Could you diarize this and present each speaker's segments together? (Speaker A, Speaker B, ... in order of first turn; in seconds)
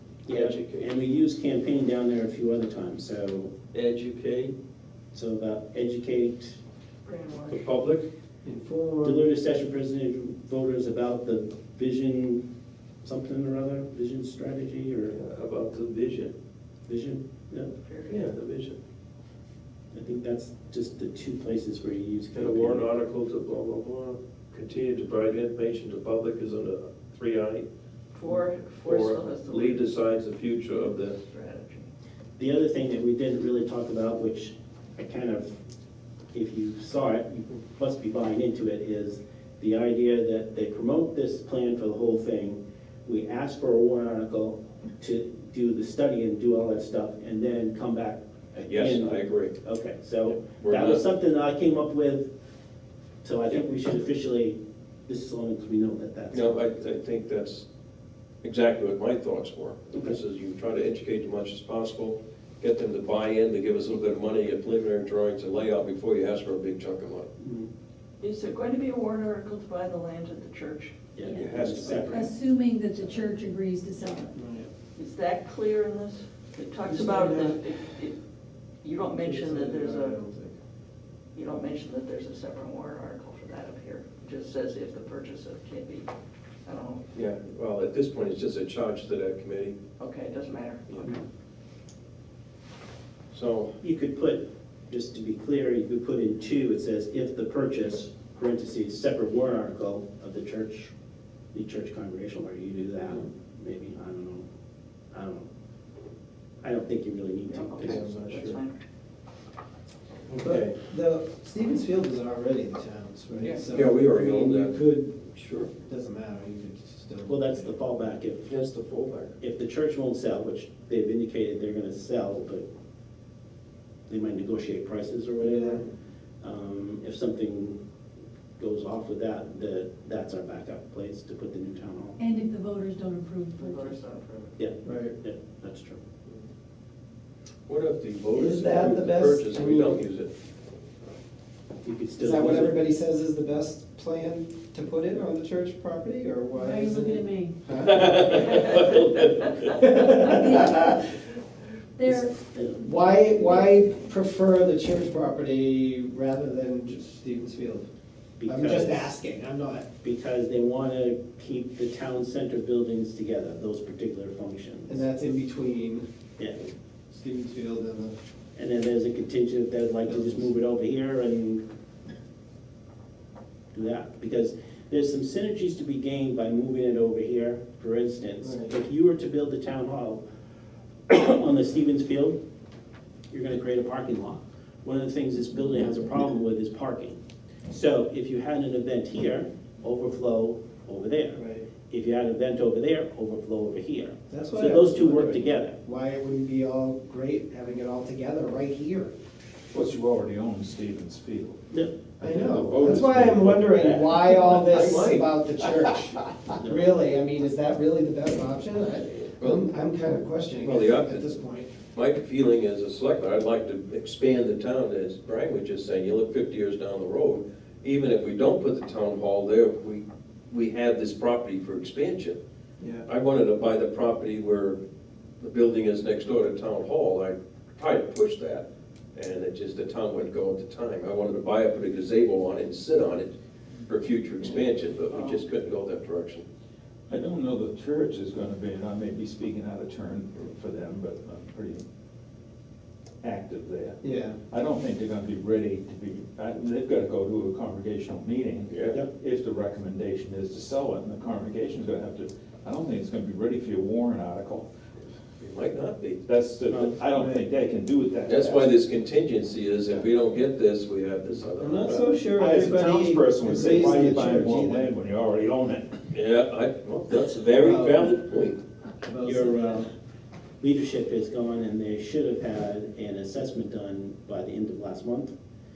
Speaker A: 0.3-3.5, 5.1-6.6, 9.0-12.4, 13.0-15.2, 16.9-17.7, 19.9-22.9, 32.4-35.6, 36.3-52.3, 53.2-56.7, 67.4-67.7, 71.2-72.3, 93.8-100.9, 101.5-104.5, 105.1-105.5, 106.6-108.1, 117.3-118.5, 119.4-122.7, 124.1-125.8, 126.4-127.8, 128.6-132.2, 134.6-136.0, 141.8-142.8, 158.4-159.1, 160.0-165.0, 166.4-166.7, 168.6-171.6, 173.7-180.2, 181.1-182.4, 183.3-187.2, 187.7-195.8, 201.7-201.9, 206.6-206.9, 256.7-256.9, 269.2-269.9, 270.6-275.3
Speaker B: 0.3-1.0, 3.7-4.5, 7.5-8.1, 15.1-16.3, 18.1-18.8, 22.3-27.6, 28.8-31.2, 48.7-49.5, 50.4-51.0, 56.3-57.6, 58.4-67.3, 71.2-72.3, 87.1-89.8, 93.3-93.8, 107.8-108.6, 110.3-110.8, 113.7-114.8, 115.3-115.7, 118.5-119.4, 137.7-140.3, 147.9-149.5, 202.4-205.3, 209.4-209.7, 210.6-222.4, 223.1-224.8, 225.4-233.3, 233.9-236.4, 248.7-249.0, 255.4-256.2, 258.3-262.1, 266.1-268.6
Speaker C: 7.0-7.7, 17.8-18.3, 28.1-30.0, 31.2-31.9, 68.2-71.0, 75.0-78.2, 78.8-80.2, 81.3-86.1, 86.7-87.1, 90.0-91.1, 107.5-108.8, 133.6-134.5, 235.1-235.4
Speaker D: 8.4-9.3, 74.3-74.7, 76.8-77.7, 79.1-80.5, 110.4-117.7, 125.4-125.9, 134.8-135.1, 138.3-140.0, 142.2-148.8, 149.6-150.9, 152.7-157.9, 158.4-159.9, 164.9-166.1, 167.1-168.2, 170.1-170.5, 178.4-178.8, 191.3-191.7, 194.3-199.1, 202.2-211.7, 222.8-223.1, 244.0-244.4, 261.6-264.9, 267.5-268.2, 269.0-269.9
Speaker E: 71.2-74.3, 132.2-134.0, 146.6-147.6, 150.0-151.0, 152.0-152.3
Speaker F: 199.7-201.6, 202.4-203.6, 237.1-241.8, 243.2-254.7, 256.3-258.7, 262.3-266.1